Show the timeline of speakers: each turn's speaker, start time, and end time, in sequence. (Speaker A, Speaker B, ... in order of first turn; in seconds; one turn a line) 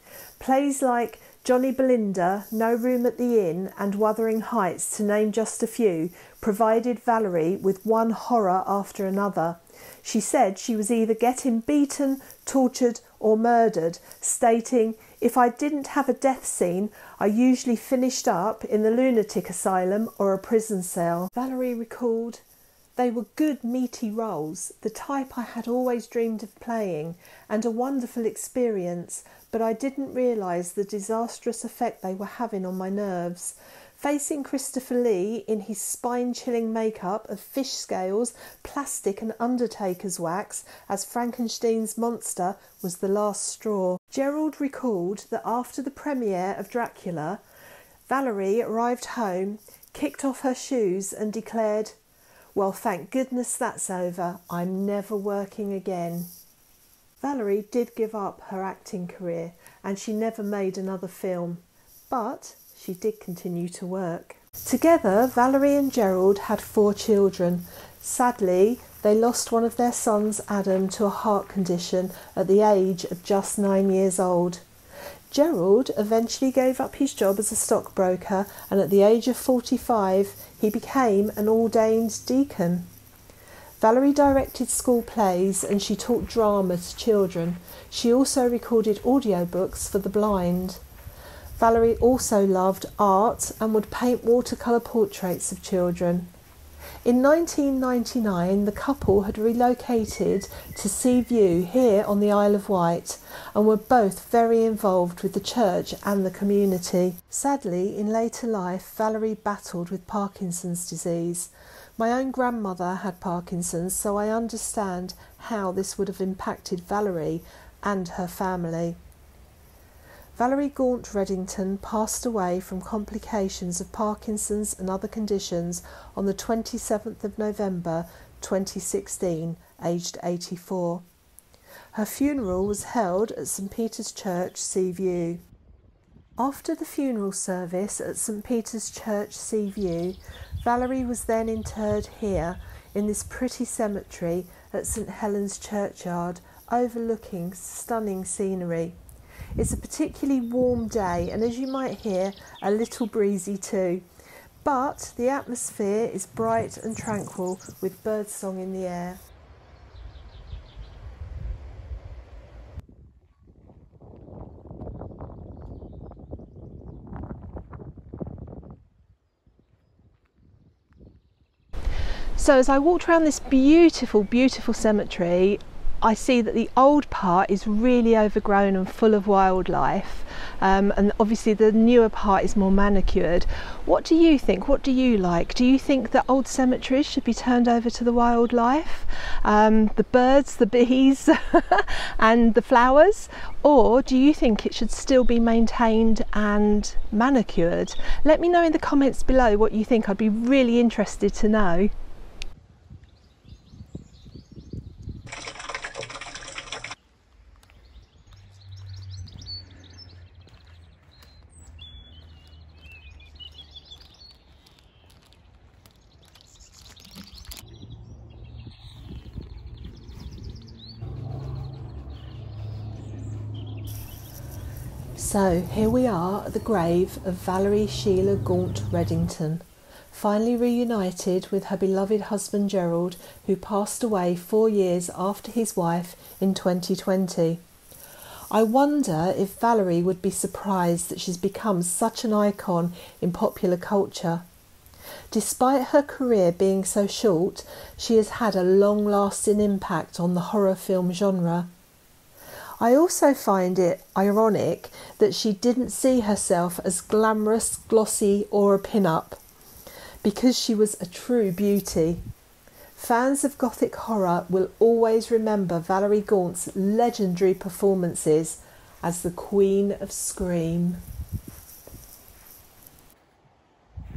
Speaker A: 0.4-22.4
Speaker A: 22.9-47.4
Speaker A: 48.1-52.0
Speaker A: 52.5-56.3
Speaker A: 57.2-74.6
Speaker A: 75.3-82.9
Speaker A: 83.8-90.8
Speaker A: 91.6-96.3
Speaker A: 97.0-119.0
Speaker A: 120.3-131.0
Speaker A: 131.9-135.4
Speaker A: 136.4-149.0
Speaker A: 149.6-154.0
Speaker A: 154.6-159.2
Speaker A: 172.4-201.9
Speaker A: 225.2-237.6
Speaker A: 238.5-244.4
Speaker A: 245.3-251.7
Speaker A: 252.8-259.4
Speaker A: 260.2-262.2
Speaker A: 262.9-271.0